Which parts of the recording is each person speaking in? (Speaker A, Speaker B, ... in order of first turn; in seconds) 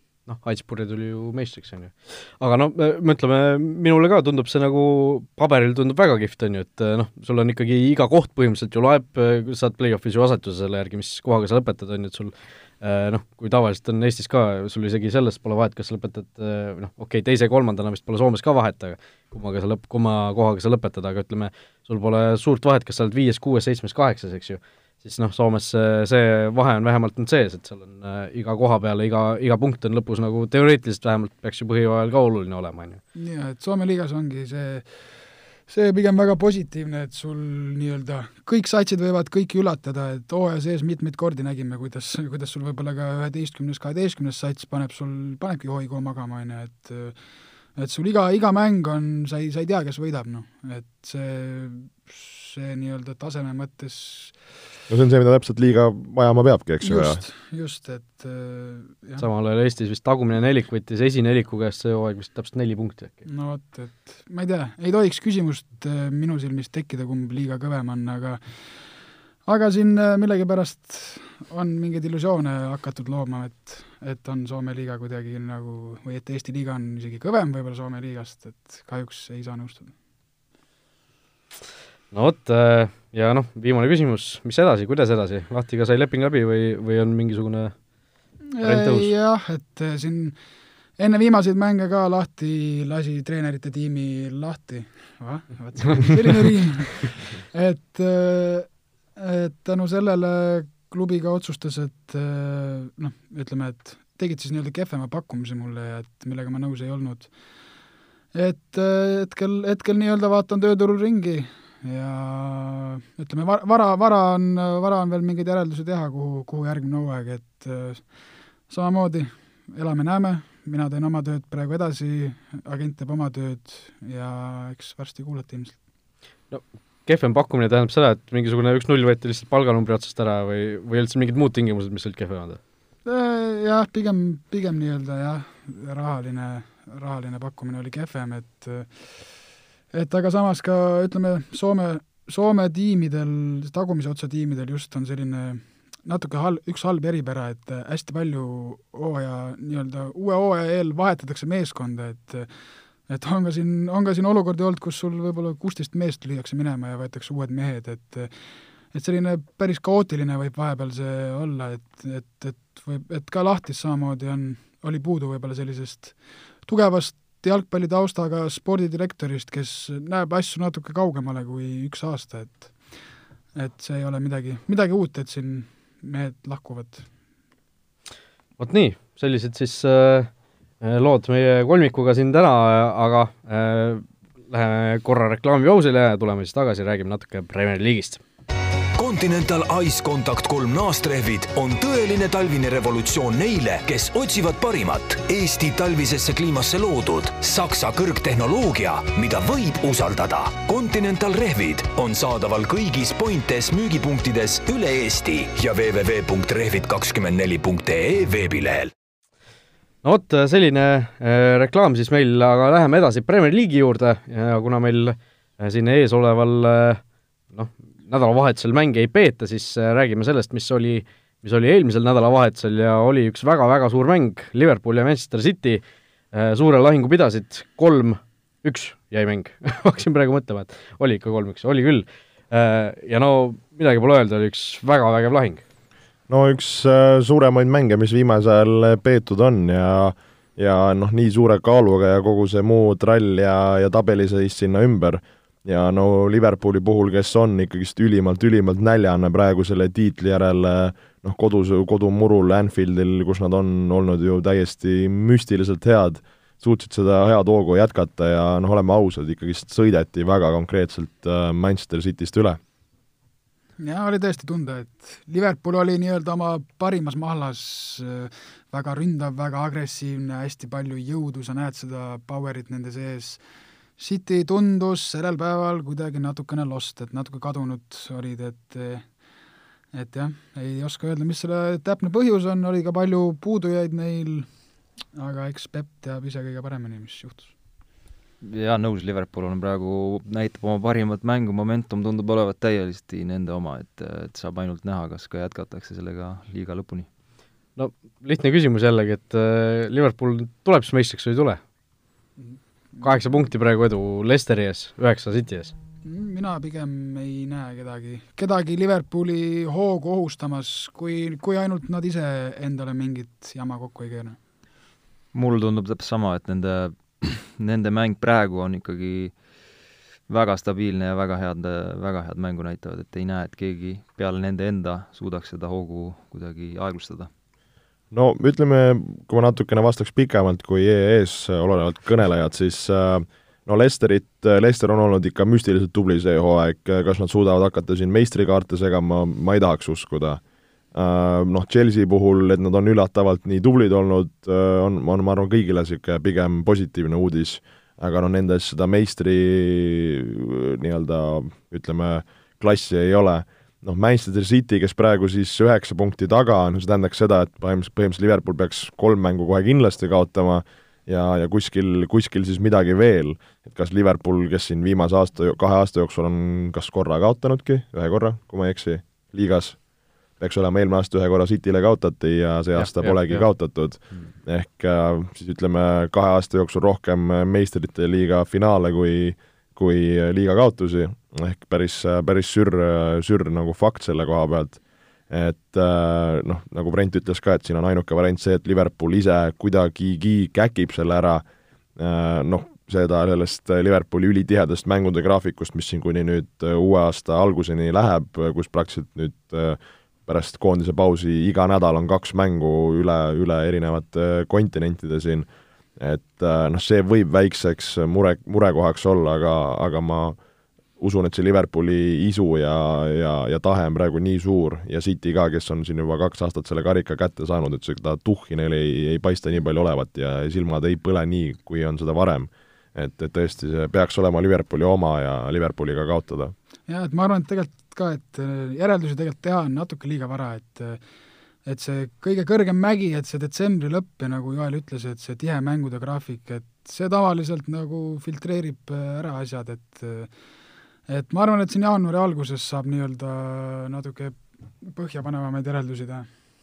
Speaker A: 0.3-33.0, 59.2-63.2, 82.1-87.7, 88.6-89.1, 126.5-132.6, 178.6-180.3, 180.8-188.2, 210.0-217.0, 217.5-235.6, 297.8-301.6, 303.0-305.7, 372.8-373.5
Speaker B: 33.1-34.9, 35.7-47.1, 47.8-54.4, 56.8-59.2, 63.3-68.4, 69.5-79.9, 88.5-90.3, 91.0-107.3, 108.3-118.1, 118.7-125.8, 133.1-138.9, 139.9-152.5, 153.1-158.3, 158.9-172.8, 173.6-177.1, 263.8-273.4, 274.0-279.1, 279.9-284.5, 285.1-287.5, 302.4-303.0, 306.1-314.4, 426.9-431.0, 431.6-440.3, 441.1-446.3
Speaker C: 54.9-57.2, 236.3-262.6, 328.1-340.4, 340.9-369.8, 370.4-391.4, 392.0-405.5, 406.0-410.4, 411.0-426.5
Speaker D: 189.0-208.9
Speaker E: 288.4-297.1, 315.3-319.4, 320.3-327.3